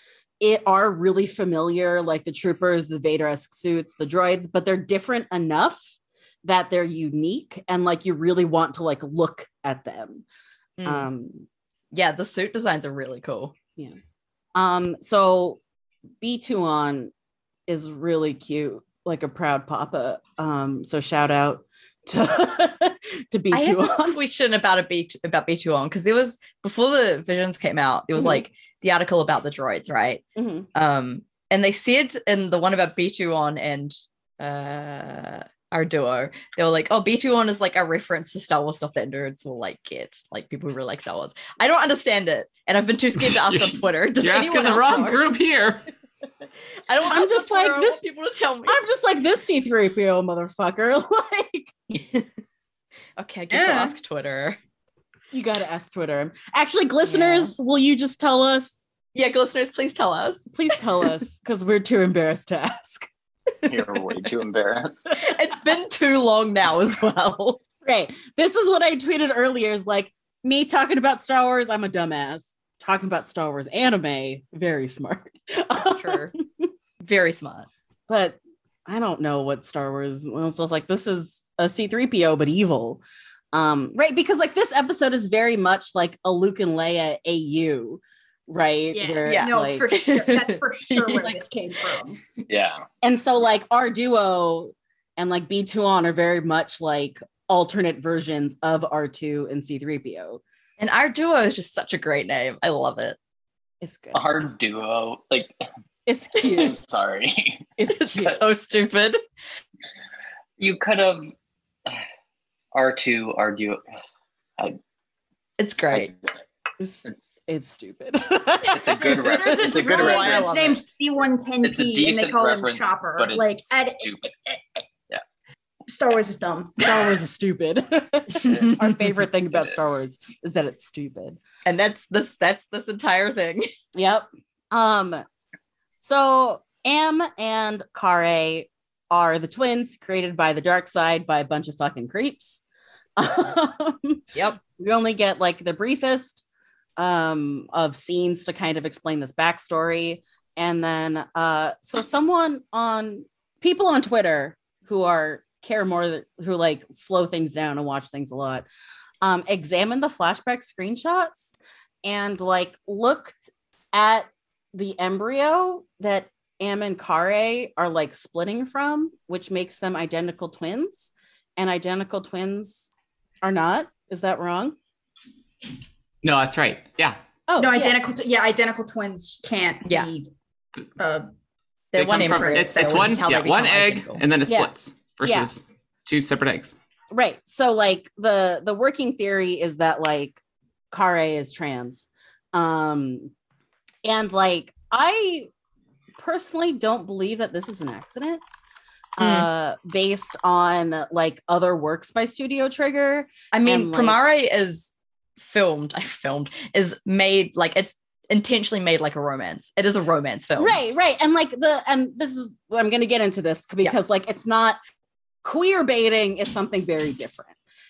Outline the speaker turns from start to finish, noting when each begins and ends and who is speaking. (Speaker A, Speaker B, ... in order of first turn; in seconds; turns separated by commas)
Speaker A: 0.4-10.2, Speaker B: 10.8-11.1, Speaker A: 10.8-11.4, Speaker B: 11.9-13.5, Speaker A: 14.5-15.6, Speaker A: 16.2-17.1, Speaker A: 17.7-24.2, Speaker B: 23.5-30.2, Speaker A: 28.1-28.4, Speaker A: 30.4-30.7, Speaker B: 30.7-45.2, Speaker C: 43.3-45.9, Speaker B: 46.9-48.8, Speaker A: 47.0-48.1, Speaker A: 48.6-51.7, Speaker B: 51.9-52.3, Speaker B: 53.2-54.6, Speaker A: 53.5-53.9, Speaker A: 55.3-58.8, Speaker B: 57.0-57.5, Speaker B: 59.1-60.8, Speaker A: 60.5-63.1, Speaker D: 63.7-65.1, Speaker B: 65.1-67.6, Speaker A: 67.8-76.3, Speaker B: 75.8-76.3, Speaker B: 77.0-77.7, Speaker A: 78.1-83.0, Speaker A: 83.5-89.8, Speaker E: 88.9-92.2, Speaker B: 89.2-91.3, Speaker D: 92.5-92.8, Speaker A: 93.0-100.4, Speaker B: 100.8-103.2, Speaker A: 103.8-104.2, Speaker D: 104.1-105.5, Speaker A: 106.0-106.8, Speaker D: 106.4-107.7, Speaker A: 107.8-108.4, Speaker B: 108.0-109.2, Speaker D: 110.6-111.3, Speaker D: 112.7-113.8, Speaker B: 115.6-116.1, Speaker A: 116.8-119.8, Speaker D: 118.7-120.5, Speaker E: 119.2-124.8, Speaker B: 119.6-120.9, Speaker D: 121.6-124.3, Speaker E: 125.9-126.9, Speaker A: 126.8-131.4, Speaker B: 131.6-133.7, Speaker A: 133.9-135.2, Speaker A: 136.0-142.6, Speaker A: 143.2-146.4, Speaker B: 144.3-144.6, Speaker A: 147.0-158.7, Speaker A: 159.2-172.9, Speaker A: 173.4-174.7, Speaker C: 176.2-177.2, Speaker A: 177.5-178.0, Speaker E: 177.6-180.3, Speaker B: 179.8-180.1, Speaker E: 181.0-181.3, Speaker B: 181.9-184.2, Speaker C: 181.9-186.8, Speaker E: 182.2-183.1, Speaker A: 185.2-185.5, Speaker A: 187.1-190.4, Speaker A: 190.9-193.3, Speaker A: 194.0-195.5, Speaker A: 196.2-198.4, Speaker A: 199.2-204.2, Speaker B: 199.2-199.5, Speaker B: 203.5-210.8, Speaker A: 210.6-214.8, Speaker A: 215.4-217.5